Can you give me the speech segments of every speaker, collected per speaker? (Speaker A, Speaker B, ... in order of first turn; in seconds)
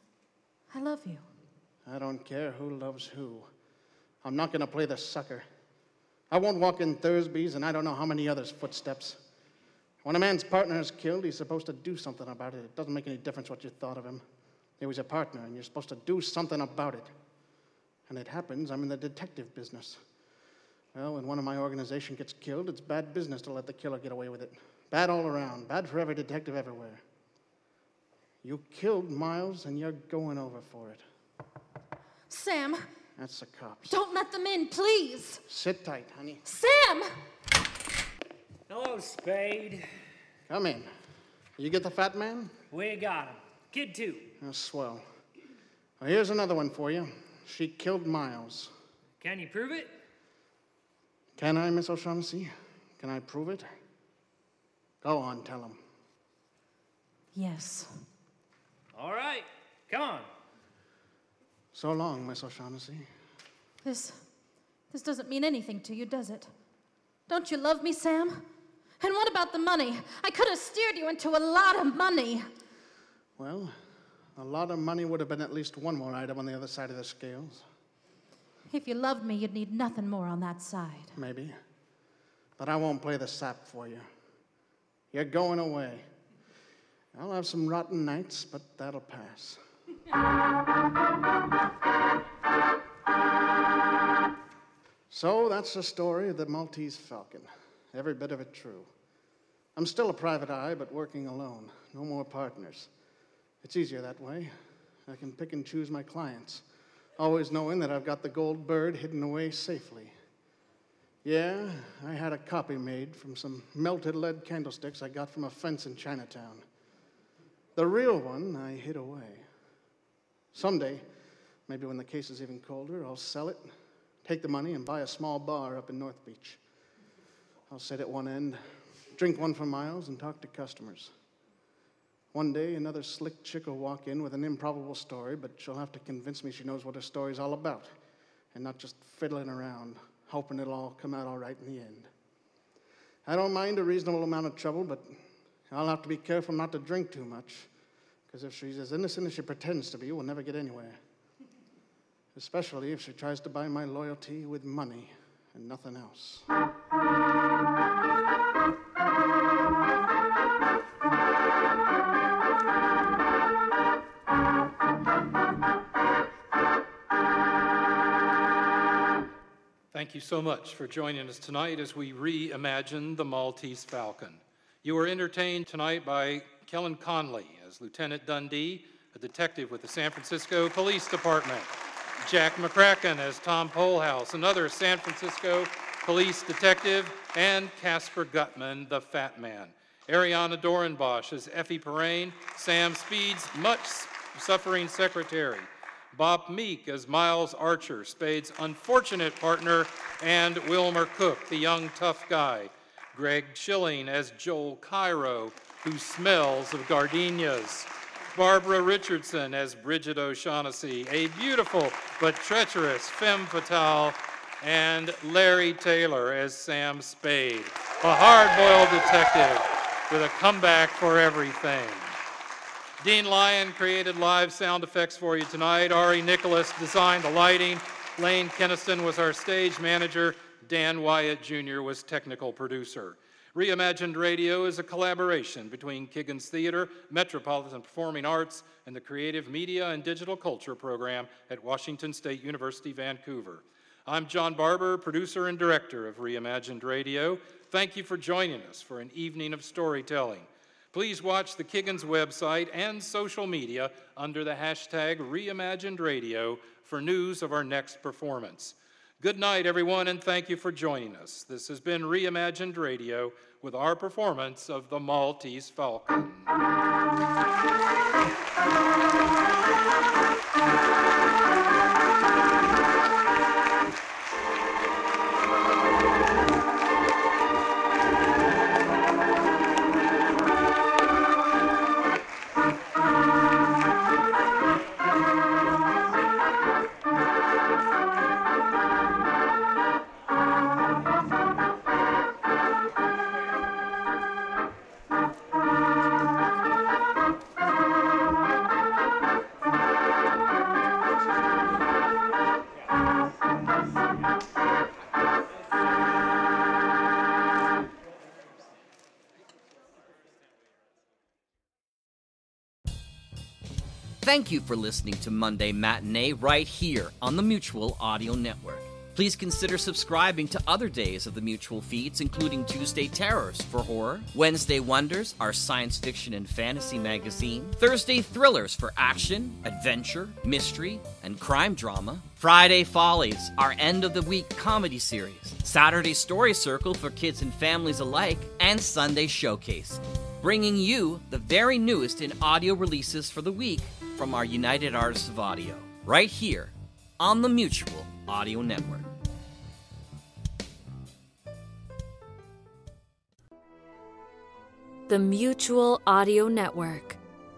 Speaker A: 0.7-1.2, 32.3-32.8, 33.9-35.4, 36.5-37.1, 57.3-57.9, 63.8-64.2, 64.9-66.5, 67.3-68.4, 69.0-72.5, 78.7-81.2
Speaker B: 1.9-3.5, 4.2-5.5, 6.3-9.2, 10.0-14.2, 14.8-17.1, 18.1-20.0, 20.9-27.0, 28.4-31.0, 33.2-33.9, 35.5-36.4, 40.5-40.9, 41.6-42.5, 44.4-45.0, 46.0-48.7, 51.4-53.7, 55.0-55.8, 61.7-63.1, 73.4-73.7, 74.4-77.6, 81.2-81.6, 82.6-84.1, 85.1-86.0, 87.1-89.6, 95.1-98.9, 99.8-102.9, 103.6-104.5, 105.1-106.6, 107.2-110.1, 111.2-116.6, 117.8-119.5, 120.5-121.0, 121.7-123.7, 124.2-126.6, 127.7-128.6, 129.1-131.1, 132.3-137.9, 138.5-142.1, 143.2-145.2, 145.7-147.7, 148.3-151.0, 152.3-156.5
Speaker C: 38.7-39.9, 42.7-44.3, 49.2-49.9, 58.9-60.3
Speaker D: 169.9-181.7, 182.2-222.2, 223.0-266.5
Speaker E: 314.2-349.1
Speaker F: 355.1-357.2